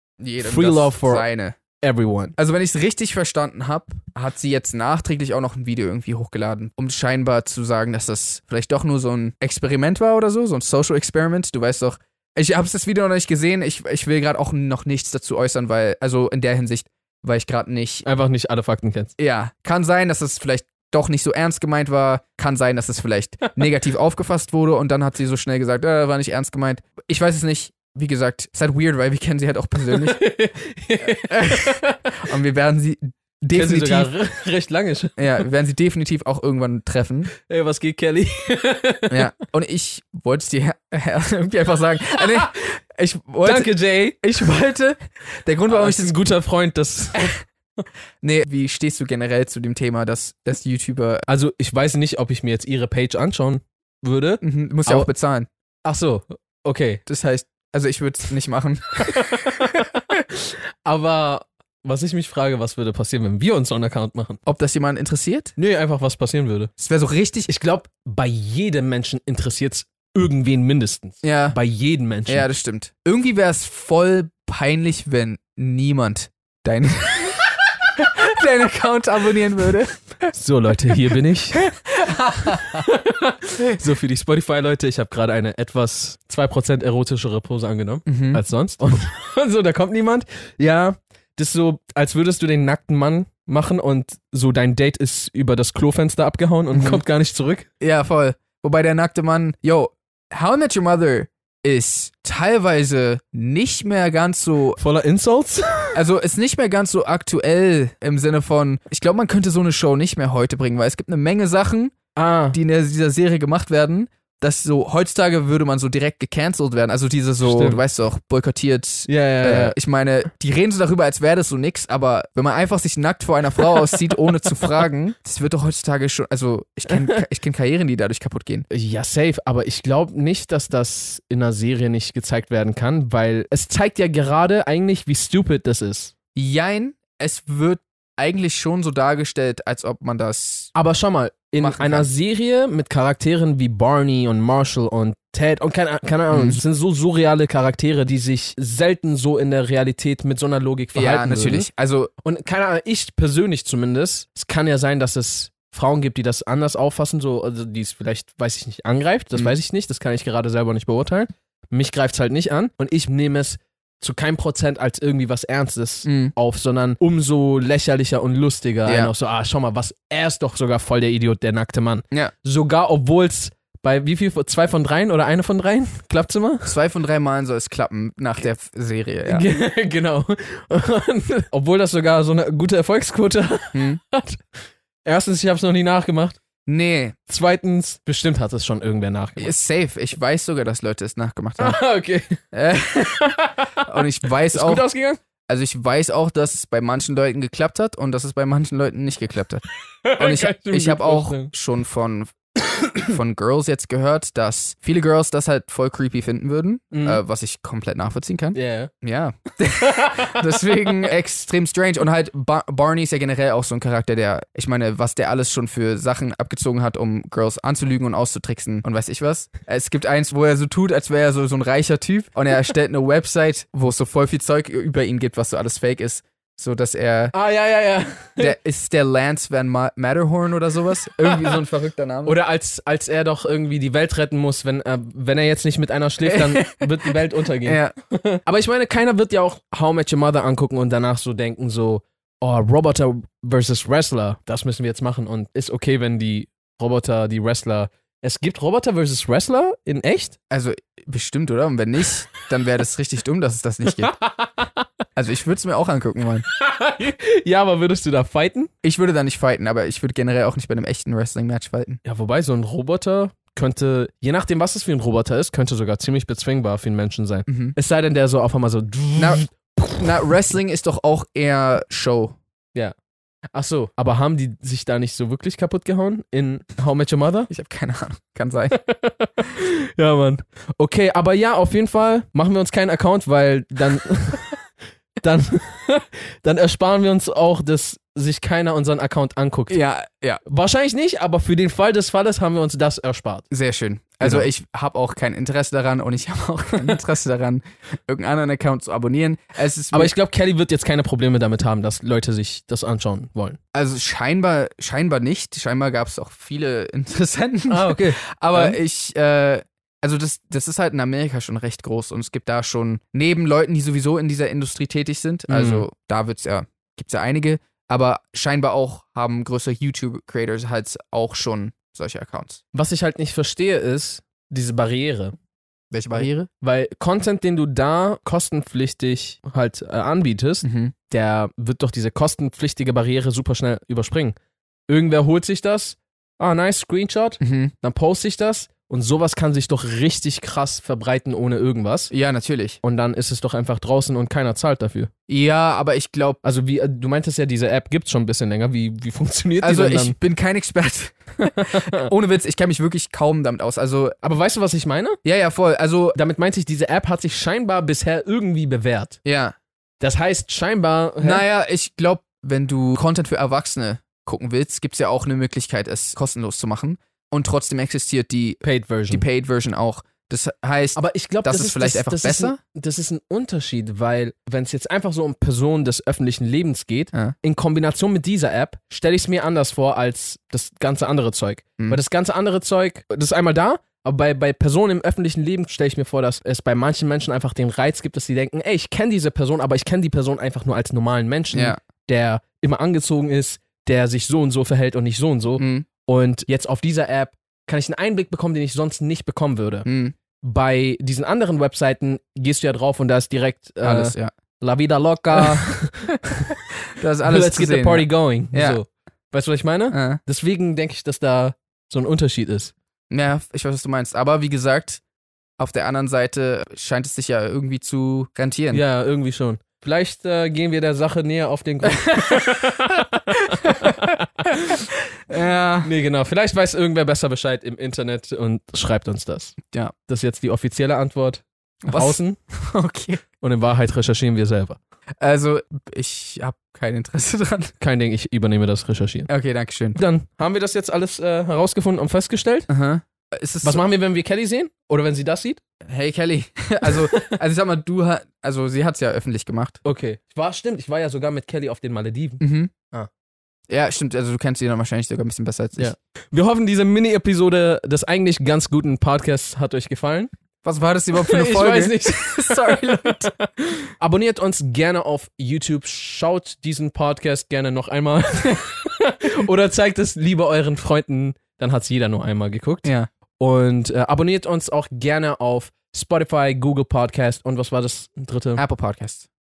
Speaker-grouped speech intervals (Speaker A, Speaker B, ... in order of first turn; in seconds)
Speaker A: 0.2-1.6, 2.4-18.1, 19.2-30.2, 31.0-34.1, 35.2-37.3, 39.1-46.2, 47.1-47.4, 48.2-51.2, 54.4-55.5, 57.0-59.8, 64.5-65.5, 66.8-67.5, 71.2-71.6, 72.2-80.3, 81.5-82.8, 88.0-88.4, 96.7-97.0, 97.8-104.8, 105.9-111.9, 112.5-128.7, 136.3-140.7, 141.6-142.1, 146.3-146.6, 150.9-152.1, 166.0-166.3, 168.8-169.1, 176.7-179.5, 183.7-184.0, 186.7-187.2, 189.4-191.8, 192.5-194.8, 195.5-199.6, 200.2-202.3, 203.0-227.3, 228.4-232.4, 236.2-238.0, 250.5-254.1, 255.2-256.4, 258.8-262.0, 267.5-267.7, 269.1-269.4, 269.9-272.4, 277.5-278.8, 289.7-290.4, 293.5-300.1, 303.7-322.6, 325.9-326.3, 330.6-330.9, 337.4-337.7, 342.1-342.8, 345.3-346.4, 349.6-354.2, 355.2-356.2, 359.2-359.5, 361.2-372.6, 391.5-391.8, 395.6-395.9, 399.8-400.1, 403.8-404.3, 407.0-408.8, 409.9-410.2, 413.1-415.0, 415.6-418.8, 421.9-422.7, 423.3-424.8, 425.3-425.9, 431.8-433.2, 435.2-437.7, 439.3-440.0, 442.7-443.8, 445.8-449.8, 452.4-452.7, 453.7-455.9, 460.6-463.3, 478.6-479.3
Speaker B: 0.4-1.2, 1.8-2.3, 18.1-19.1, 29.9-32.1, 33.5-35.2, 37.5-39.2, 43.4-44.5, 45.7-47.4, 51.3-55.1, 55.8-57.0, 59.1-64.4, 65.6-66.7, 67.5-72.5, 80.3-81.6, 82.6-97.7, 104.8-106.0, 112.2-112.6, 117.4-117.8, 119.1-119.8, 128.7-136.1, 140.7-151.7, 152.2-176.7, 179.3-184.4, 185.0-186.4, 187.3-189.5, 191.6-192.4, 192.9-193.7, 194.5-195.2, 200.0-201.5, 206.9-207.2, 208.5-208.9, 209.9-210.3, 227.3-228.6, 232.2-250.3, 254.0-254.7, 256.6-258.7, 262.0-270.1, 273.5-277.5, 278.7-284.5, 285.2-289.8, 290.5-293.5, 294.2-294.5, 299.9-303.6, 307.7-308.8, 315.5-315.9, 322.7-325.3, 326.1-334.4, 334.9-342.1, 342.8-345.1, 346.4-350.2, 354.2-355.2, 356.1-359.1, 360.0-361.4, 368.6-369.2, 370.9-399.9, 400.4-406.6, 407.2-412.7, 418.7-424.0, 425.8-432.4, 433.4-434.8, 437.8-439.3, 439.9-442.7, 443.6-445.6, 446.9-447.3, 449.8-453.1, 455.8-460.3, 461.1-463.2, 464.0-478.6